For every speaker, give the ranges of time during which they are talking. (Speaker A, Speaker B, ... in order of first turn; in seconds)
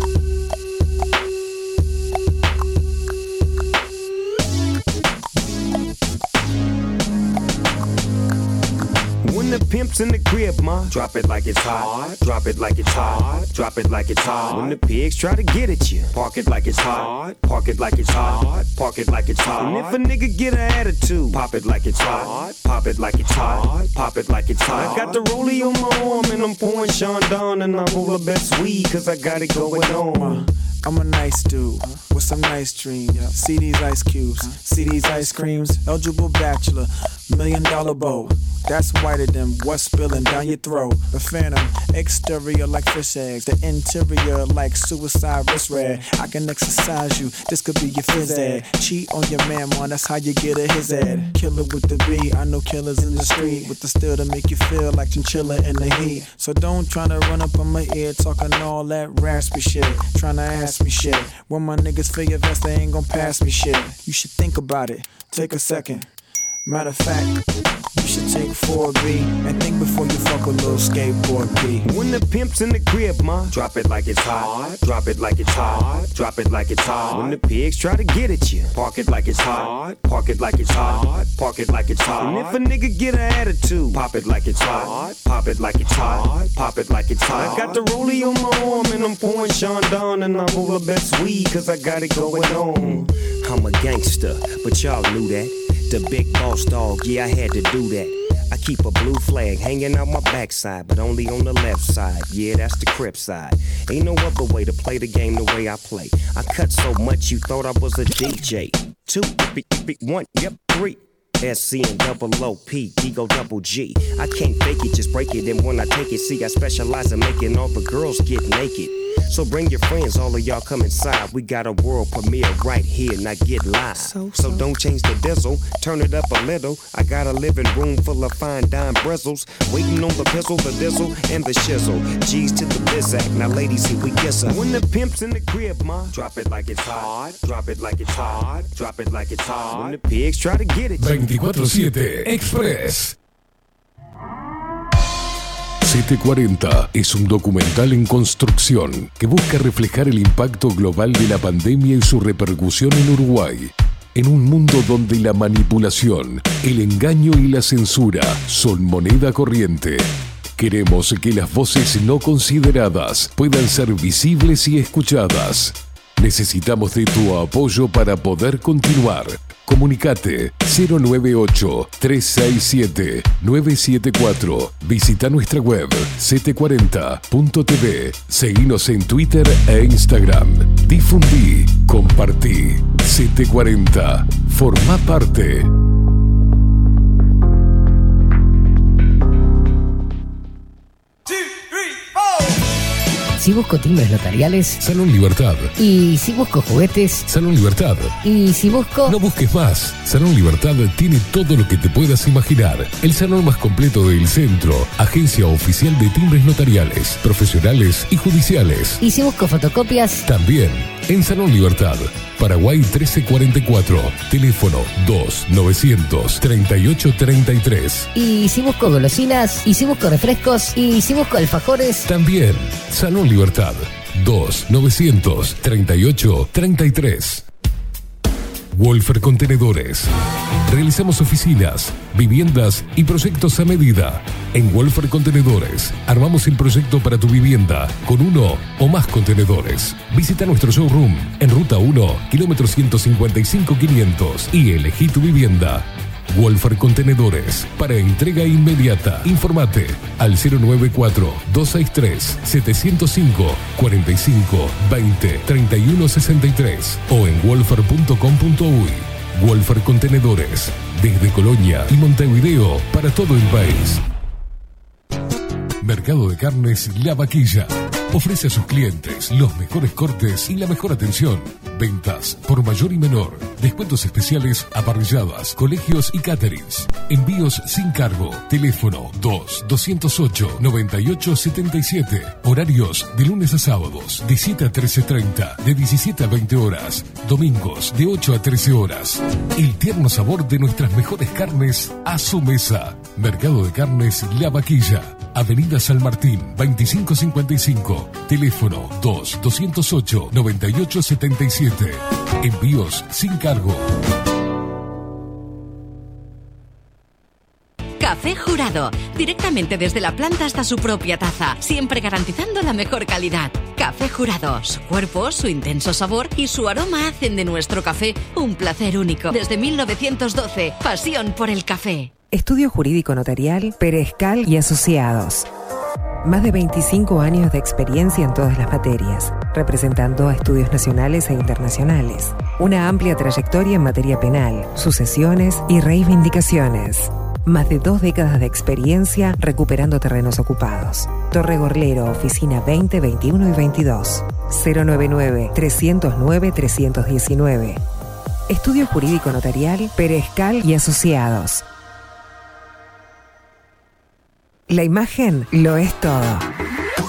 Speaker A: 9.2-30.5, 71.8-141.1
Speaker B: 30.1-66.1, 66.6-67.4, 67.9-71.9
Speaker C: 124.0-124.6, 322.3-325.5, 326.2-347.8, 348.5-351.6, 354.7-356.4
Speaker D: 141.0-143.1, 145.8-185.7, 194.8-195.7, 197.3-198.1, 199.1-209.0, 210.2-218.1, 222.1-227.4, 228.7-230.1, 230.7-264.0, 265.8-303.8
Speaker E: 193.4-194.8, 195.8-197.2, 198.2-199.1, 209.0-210.2, 218.1-222.1
Speaker F: 308.0-322.1